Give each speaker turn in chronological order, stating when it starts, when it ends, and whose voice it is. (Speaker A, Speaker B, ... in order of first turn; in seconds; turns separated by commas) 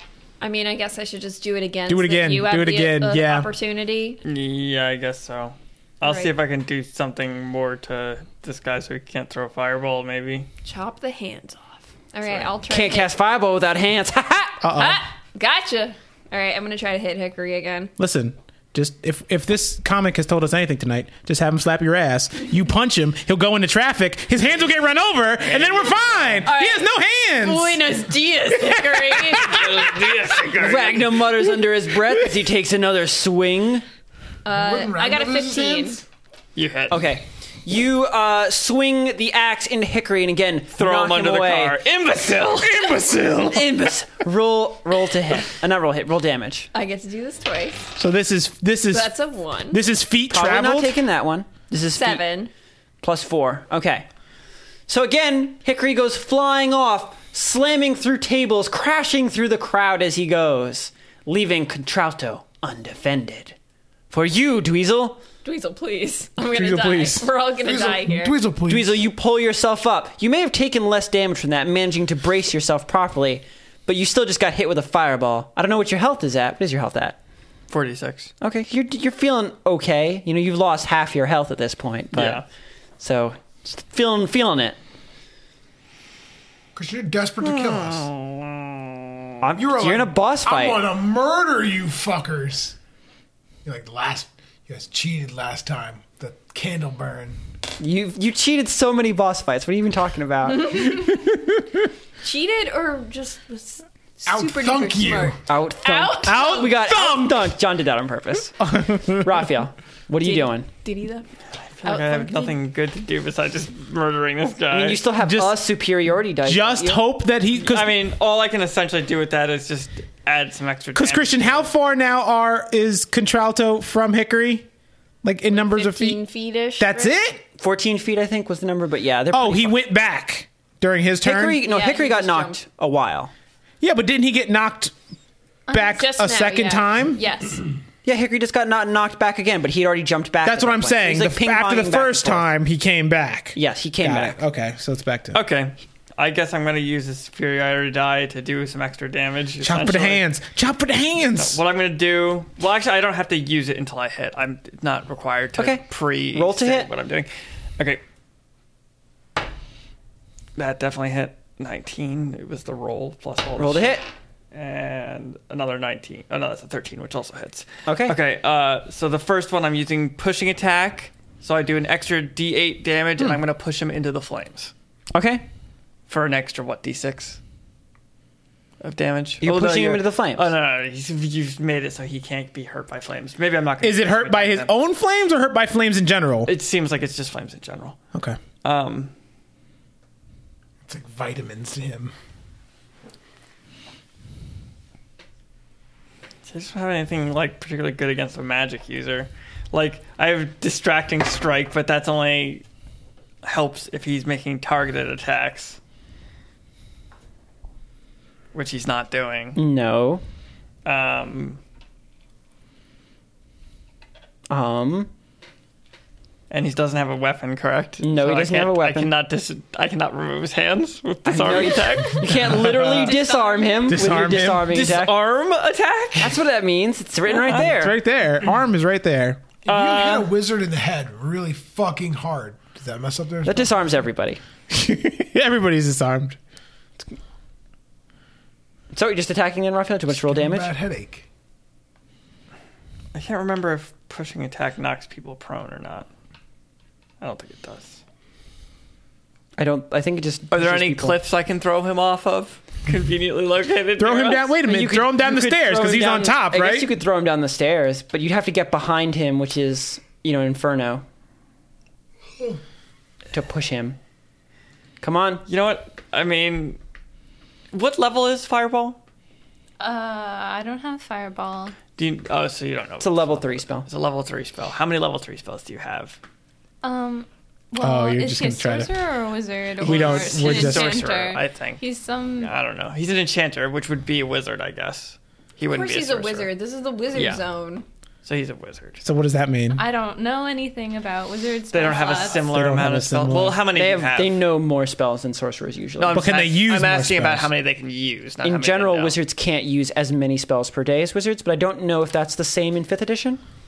Speaker A: 0.4-4.2, Speaker B: 1.9-3.5, Speaker C: 4.2-10.5, Speaker A: 6.0-6.3, Speaker A: 10.6-13.1, Speaker C: 12.2-12.5, Speaker D: 12.7-14.7, Speaker B: 14.6-15.0, Speaker A: 14.8-17.9, Speaker B: 18.0-27.8, Speaker C: 25.4-26.5, Speaker A: 26.4-30.6, Speaker B: 28.6-29.6, Speaker C: 29.4-31.3, Speaker D: 30.6-33.8, Speaker A: 34.5-36.0, Speaker E: 34.5-36.0, Speaker C: 36.6-37.1, Speaker D: 36.9-41.8, Speaker C: 40.7-43.0, Speaker B: 42.6-43.9, Speaker D: 43.5-46.7, Speaker A: 46.7-47.9, Speaker B: 48.0-49.1, Speaker A: 48.9-49.8, Speaker B: 49.7-51.0, Speaker D: 50.3-52.2, Speaker A: 52.0-52.5, Speaker D: 53.0-54.1, Speaker D: 54.9-63.6, Speaker D: 64.1-65.2, Speaker A: 65.4-68.4, Speaker B: 66.5-67.3, Speaker E: 67.6-69.0, Speaker D: 68.7-77.2, Speaker C: 77.7-78.3, Speaker D: 78.4-82.4, Speaker C: 82.1-82.5, Speaker D: 83.0-84.8, Speaker E: 86.8-88.1, Speaker C: 87.4-89.0, Speaker D: 89.4-90.8, Speaker E: 89.6-92.8, Speaker E: 93.7-97.4, Speaker D: 97.8-100.9, Speaker A: 100.5-101.3, Speaker B: 101.2-101.5, Speaker A: 102.2-107.3, Speaker E: 104.3-105.4, Speaker D: 105.5-110.7, Speaker B: 106.3-107.4, Speaker B: 108.6-109.5, Speaker A: 110.2-111.3, Speaker C: 111.8-115.0, Speaker A: 111.8-112.6, Speaker D: 114.7-117.0, Speaker B: 115.2-115.7, Speaker B: 116.4-118.0, Speaker C: 117.6-121.7, Speaker B: 121.0-124.7, Speaker B: 125.2-126.2, Speaker A: 125.5-127.2, Speaker B: 126.8-127.4, Speaker D: 127.6-129.8, Speaker B: 129.3-131.7, Speaker D: 131.2-133.3, Speaker A: 131.6-132.6, Speaker B: 133.8-134.9, Speaker B: 135.7-137.2, Speaker A: 135.7-137.6, Speaker D: 138.1-142.5, Speaker B: 140.4-145.4, Speaker D: 143.6-144.4, Speaker C: 145.3-150.2, Speaker B: 149.6-151.6, Speaker C: 151.3-158.0, Speaker D: 155.6-156.9, Speaker C: 160.6-164.0, Speaker D: 163.6-164.1, Speaker C: 164.5-174.7, Speaker D: 167.9-168.2, Speaker D: 175.1-175.5, Speaker C: 176.1-177.4, Speaker C: 178.8-184.7, Speaker D: 179.4-180.5, Speaker B: 183.8-186.5, Speaker C: 186.5-188.0, Speaker C: 188.6-189.1, Speaker E: 190.9-192.1, Speaker C: 196.4-202.6, Speaker C: 203.4-205.8, Speaker C: 208.5-209.6, Speaker D: 209.6-210.2, Speaker C: 210.8-211.6, Speaker D: 214.5-215.1, Speaker C: 216.5-222.7, Speaker D: 218.0-219.1, Speaker D: 221.2-225.2, Speaker B: 222.3-223.1, Speaker A: 222.9-224.1, Speaker B: 223.9-224.8, Speaker C: 224.7-226.4, Speaker D: 226.2-227.9, Speaker C: 227.3-227.7, Speaker B: 227.5-229.4, Speaker E: 229.6-233.9, Speaker C: 229.7-230.3, Speaker D: 233.4-234.4, Speaker B: 234.7-236.4, Speaker D: 238.9-240.7, Speaker E: 240.1-241.3, Speaker C: 243.1-246.1, Speaker C: 247.2-248.0, Speaker D: 249.6-251.2, Speaker C: 250.5-254.5, Speaker B: 254.0-256.9, Speaker D: 254.6-261.0, Speaker D: 263.3-264.0, Speaker D: 265.0-265.4, Speaker C: 265.5-266.8, Speaker C: 267.7-269.0, Speaker F: 269.8-271.8, Speaker C: 272.0-276.2, Speaker D: 273.0-273.9, Speaker F: 276.8-282.5, Speaker B: 277.8-278.9, Speaker B: 279.8-281.1, Speaker C: 279.8-281.8, Speaker A: 280.4-280.7, Speaker C: 282.4-286.5, Speaker A: 285.7-287.9, Speaker C: 287.1-287.4, Speaker C: 288.2-289.0, Speaker B: 289.0-289.9, Speaker F: 289.7-292.5, Speaker C: 291.7-294.4, Speaker A: 291.9-292.3, Speaker B: 292.4-293.6, Speaker D: 293.7-296.2, Speaker C: 296.0-299.2, Speaker B: 296.1-297.5, Speaker D: 298.4-303.4